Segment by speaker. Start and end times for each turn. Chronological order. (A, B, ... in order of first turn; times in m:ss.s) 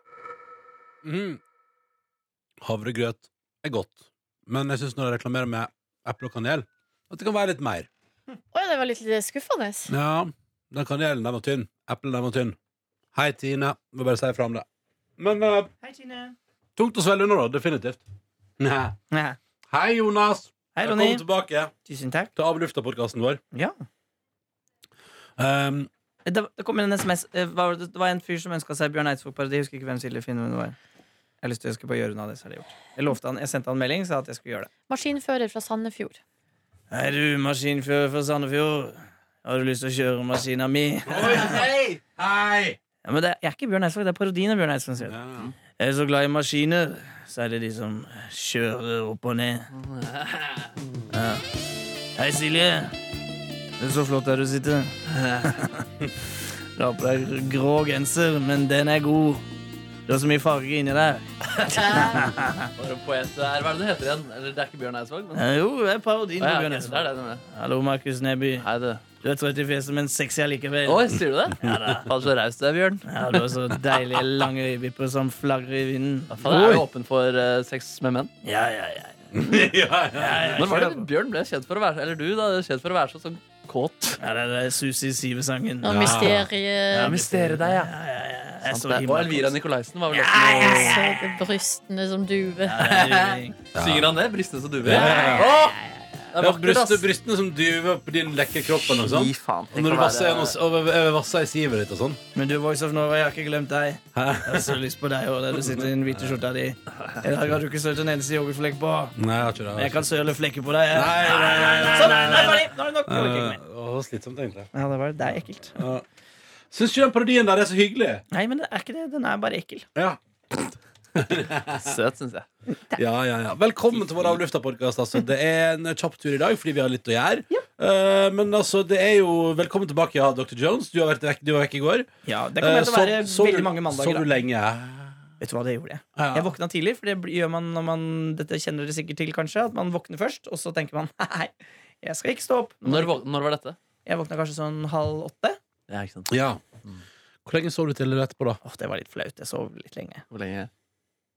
0:01.0-0:01.4 A
0:02.6-0:07.9 A
0:08.5-0:09.9 B
0:09.9-0:12.6 A
0:13.2-0:14.7 A
0:15.2-0:15.7 A
0:15.8-0:16.4 C
0:16.8-0:18.0 A
0:18.6-0:19.0 A
0:19.1-0:19.4 C
0:19.7-0:21.7 A
0:20.8-0:21.2 C
0:21.9-0:22.3 C
0:22.4-0:23.4 A
0:25.4-0:25.9 A
0:26.2-0:30.8 C
0:31.4-0:34.7 C
0:34.9-0:36.2 B
0:36.9-0:41.6 C
0:41.1-0:42.8 A
0:43.0-0:45.2 C
0:45.1-0:45.5 A
0:45.8-0:49.7 C
0:49.8-0:50.7 D
0:51.1-0:51.4 C
0:52.2-0:52.9 C
0:53.8-0:55.9 C
0:56.8-0:59.4 C
1:00.1-1:02.7 C
1:01.7-1:02.2 B
1:01.8-1:02.1 D
1:02.7-1:05.4 D
1:05.3-1:12.0 C
1:06.4-1:07.4 D
1:08.6-1:09.1 D
1:10.8-1:13.1 D
1:13.1-1:16.3 C
1:16.3-1:18.3 D
1:16.4-1:16.9 A
1:18.4-1:21.1 C
1:19.3-1:20.9 A
1:20.6-1:24.2 D
1:24.2-1:26.4 C
1:25.8-1:27.2 B
1:25.9-1:26.5 A
1:26.9-1:29.6 C
1:27.0-1:27.9 D
1:28.7-1:31.0 D
1:30.1-1:31.4 C
1:30.6-1:32.9 B
1:32.7-1:33.6 C
1:32.7-1:35.8 D
1:33.8-1:34.2 A
1:34.8-1:35.8 A
1:35.1-1:35.6 C
1:36.3-1:37.1 D
1:36.4-1:42.2 A
1:38.9-1:40.6 D
1:42.4-1:49.1 C
1:44.2-1:44.8 A
1:49.2-1:50.1 A
1:49.8-1:53.6 C
1:50.9-1:54.7 A
1:54.7-1:55.8 C
1:55.8-1:56.0 A
1:56.7-1:58.2 A
1:58.3-1:59.9 C
2:01.2-2:02.0 A
2:01.8-2:02.5 D
2:02.9-2:15.2 A
2:03.9-2:04.4 D
2:12.3-2:14.3 C
2:15.4-2:23.2 C
2:16.2-2:16.5 A
2:22.8-2:23.8 D
2:24.0-2:25.6 C
2:25.9-2:26.3 D
2:26.3-2:26.6 A
2:27.5-2:28.6 A
2:28.6-2:30.2 C
2:30.3-2:30.7 D